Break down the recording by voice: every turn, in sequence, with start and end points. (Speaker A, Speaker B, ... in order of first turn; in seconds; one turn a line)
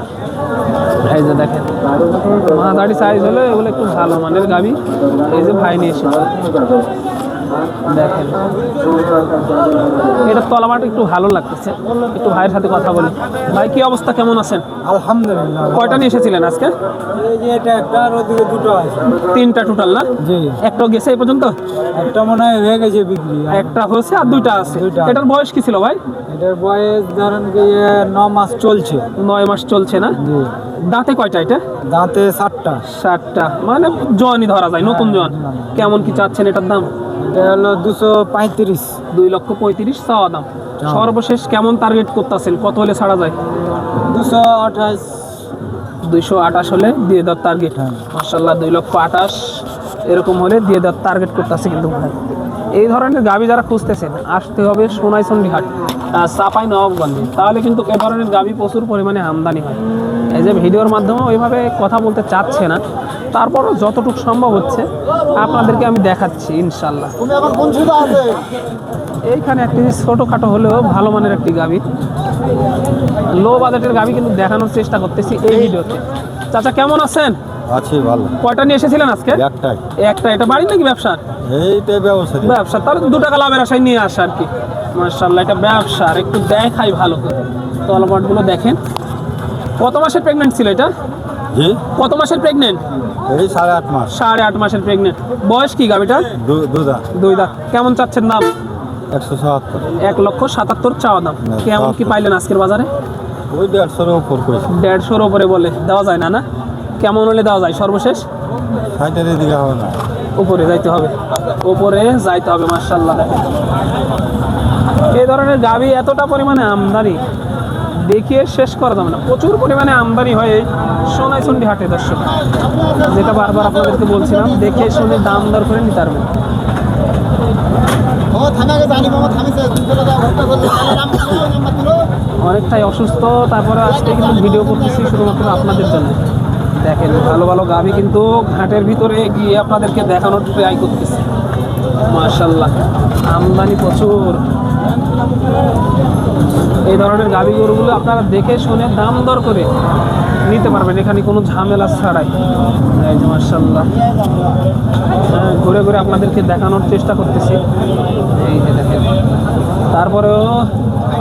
Speaker A: 1.0-6.4
Speaker A: 7.8-8.4
Speaker A: 10.2-14.6
Speaker B: 14.8-16.1
Speaker A: 15.7-16.7
Speaker B: 17.1-19.2
Speaker A: 19.2-21.6
Speaker B: 20.2-20.6
Speaker B: 21.9-23.8
Speaker A: 23.5-26.0
Speaker B: 24.4-25.2
Speaker B: 26.3-29.1
Speaker A: 29.2-30.1
Speaker B: 30.2-30.5
Speaker A: 30.8-31.6
Speaker B: 31.9-32.8
Speaker A: 32.9-36.9
Speaker B: 34.8-36.3
Speaker B: 37.2-39.0
Speaker A: 39.1-43.4
Speaker B: 40.8-41.1
Speaker B: 44.0-45.5
Speaker A: 46.0-52.2
Speaker B: 47.8-48.0
Speaker A: 52.7-62.8
Speaker A: 63.3-67.2
Speaker C: 67.3-68.2
Speaker B: 67.3-68.1
Speaker A: 69.2-71.8
Speaker A: 73.3-77.4
Speaker C: 77.7-78.3
Speaker A: 78.4-79.4
Speaker C: 79.3-79.8
Speaker A: 80.0-81.2
Speaker C: 81.5-82.6
Speaker A: 82.4-88.8
Speaker A: 89.8-90.9
Speaker C: 91.5-91.8
Speaker A: 92.0-92.8
Speaker C: 93.3-94.1
Speaker A: 94.1-96.3
Speaker C: 96.3-97.0
Speaker A: 97.1-98.5
Speaker C: 99.1-99.9
Speaker A: 100.0-102.9
Speaker C: 101.5-102.2
Speaker C: 103.5-104.7
Speaker A: 104.7-106.4
Speaker A: 107.0-108.3
Speaker C: 109.0-109.9
Speaker A: 110.4-113.4
Speaker A: 115.1-117.2
Speaker A: 117.9-126.3
Speaker A: 128.6-129.6
Speaker A: 130.5-131.5
Speaker A: 132.4-136.2
Speaker A: 136.8-141.3
Speaker A: 142.1-142.7
Speaker A: 143.3-144.4
Speaker A: 146.8-149.7
Speaker A: 150.4-152.3
Speaker A: 152.9-153.9
Speaker A: 155.3-157.6
Speaker A: 158.3-159.1
Speaker A: 159.9-160.7